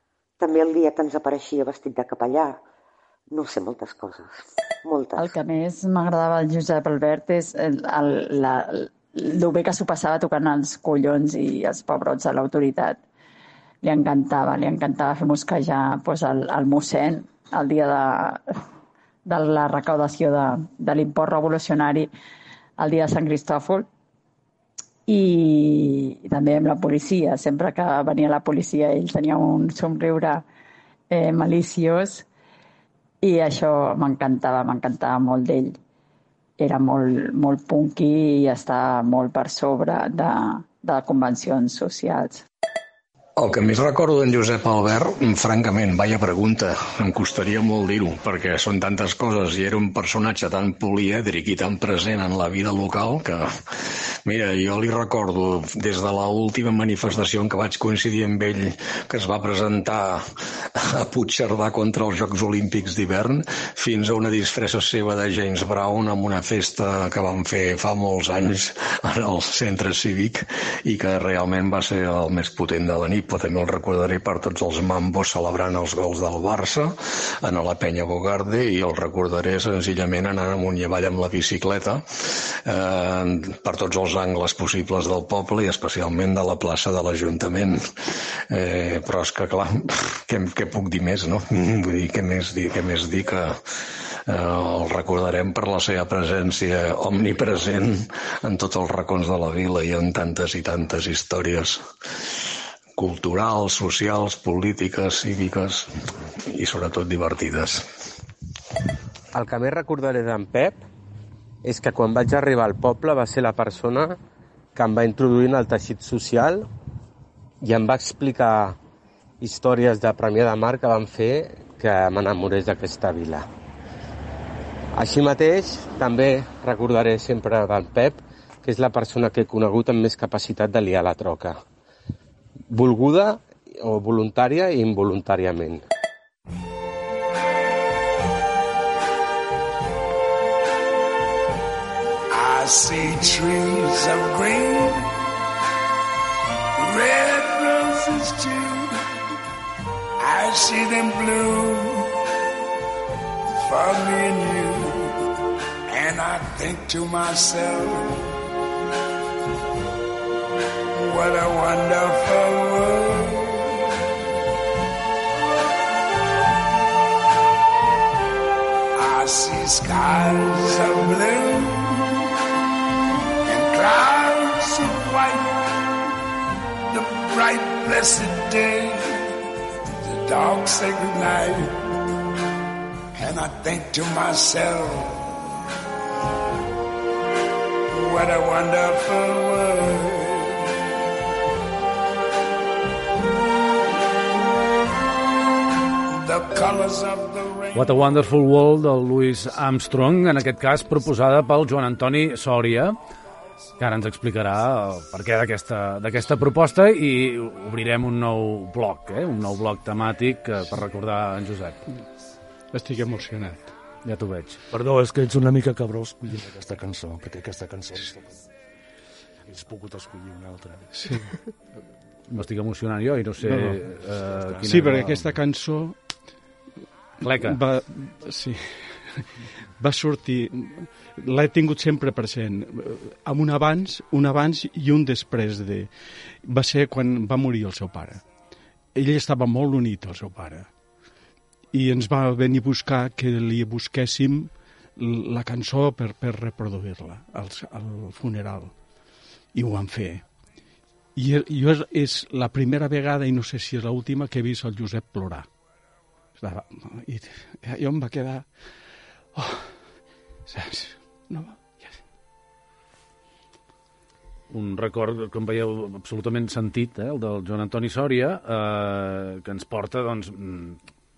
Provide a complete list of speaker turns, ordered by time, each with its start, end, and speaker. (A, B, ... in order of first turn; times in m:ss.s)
0:00.4-0:02.6 A
0:03.3-0:05.2 A
0:05.2-0:13.0 B
0:13.8-0:18.4 B
0:19.3-0:22.1 B
0:22.8-0:23.9 B
0:25.1-0:30.4 B
0:31.1-0:32.2 B
0:33.2-0:35.8 B
0:36.6-0:42.4 B
0:43.4-1:27.8 C
1:28.5-1:33.6 C
1:34.3-1:41.8 C
1:43.0-1:45.9 C
1:46.5-1:47.8 C
1:49.3-1:50.8 D
1:51.6-1:54.2 D
1:54.8-1:56.7 D
1:57.6-1:58.8 D
1:59.4-2:03.5 D
2:04.9-2:11.5 D
2:12.7-2:15.8 D
2:22.3-2:25.1 E
2:26.8-2:29.0 E
2:30.2-2:32.1 E
2:33.5-2:35.2 E
2:35.9-2:38.3 E
2:41.0-2:43.8 E
2:49.0-2:52.2 E
2:53.5-2:55.8 E
2:56.9-2:59.3 E
3:00.0-3:01.8 E
3:03.2-3:05.3 E
3:07.9-3:10.8 E
3:16.1-3:18.1 E
3:17.7-3:23.0 F
3:23.8-3:31.8 F
3:32.7-3:33.7 G
3:34.0-3:34.6 F
3:34.7-3:38.4 H
3:39.5-3:40.9 H
3:42.3-3:45.3 F
3:43.5-3:43.8 G
3:44.7-3:46.0 G
3:47.2-3:47.6 F
3:47.4-3:49.3 G
3:49.8-3:55.9 G
3:56.4-3:58.2 G
3:59.0-4:00.7 G
4:01.7-4:08.7 G
4:09.5-4:10.2 G
4:11.2-4:15.5 G
4:16.4-4:18.5 G
4:19.4-4:19.7 G
4:20.5-4:21.9 G
4:24.5-4:30.8 F